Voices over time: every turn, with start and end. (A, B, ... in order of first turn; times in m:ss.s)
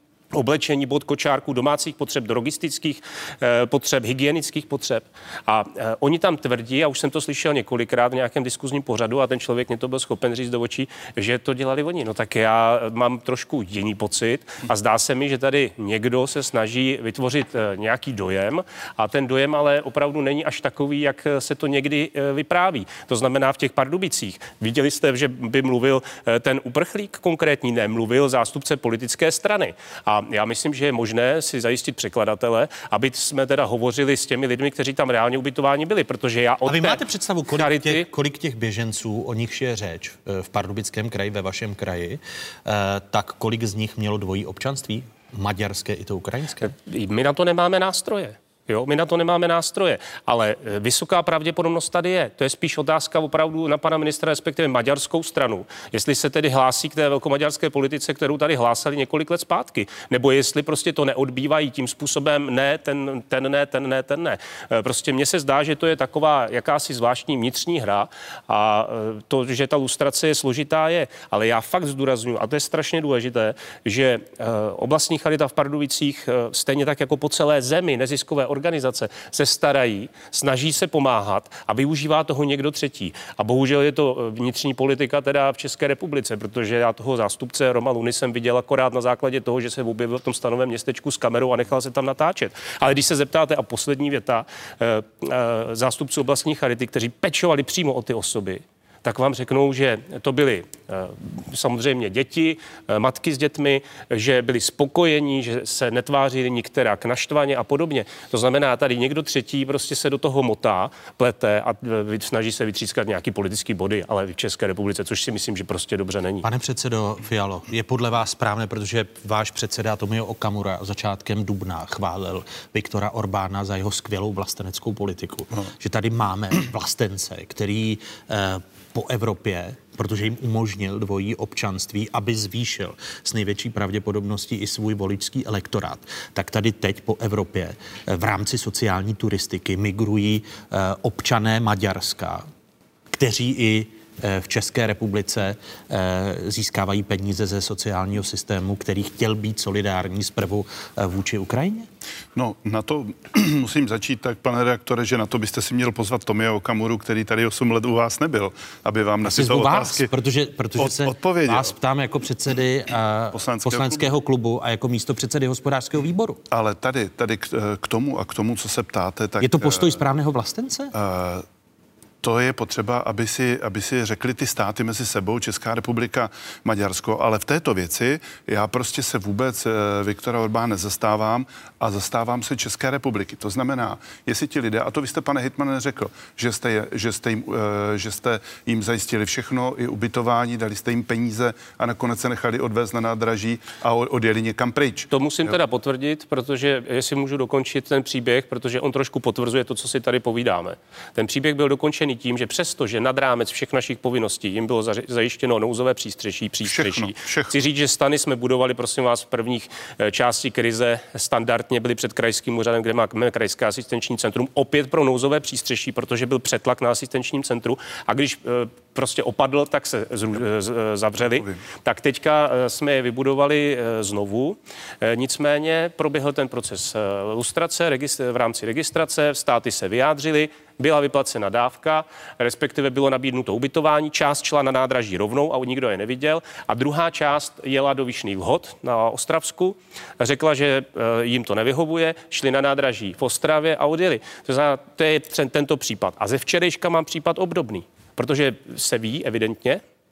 0:00.3-0:38.0 A
0:36.7-0:46.7 B
0:46.6-1:56.4 A
1:56.4-2:22.4 B
2:23.1-2:31.9 B
2:32.3-2:40.1 C
2:39.2-2:46.4 B
2:40.8-2:41.7 C
2:43.3-2:44.1 C
2:46.5-2:50.0 C
2:49.4-2:50.9 B
2:50.9-2:51.4 C
2:52.2-3:15.6 C
3:15.1-4:09.8 A
3:26.7-3:27.5 C
3:41.2-3:41.6 C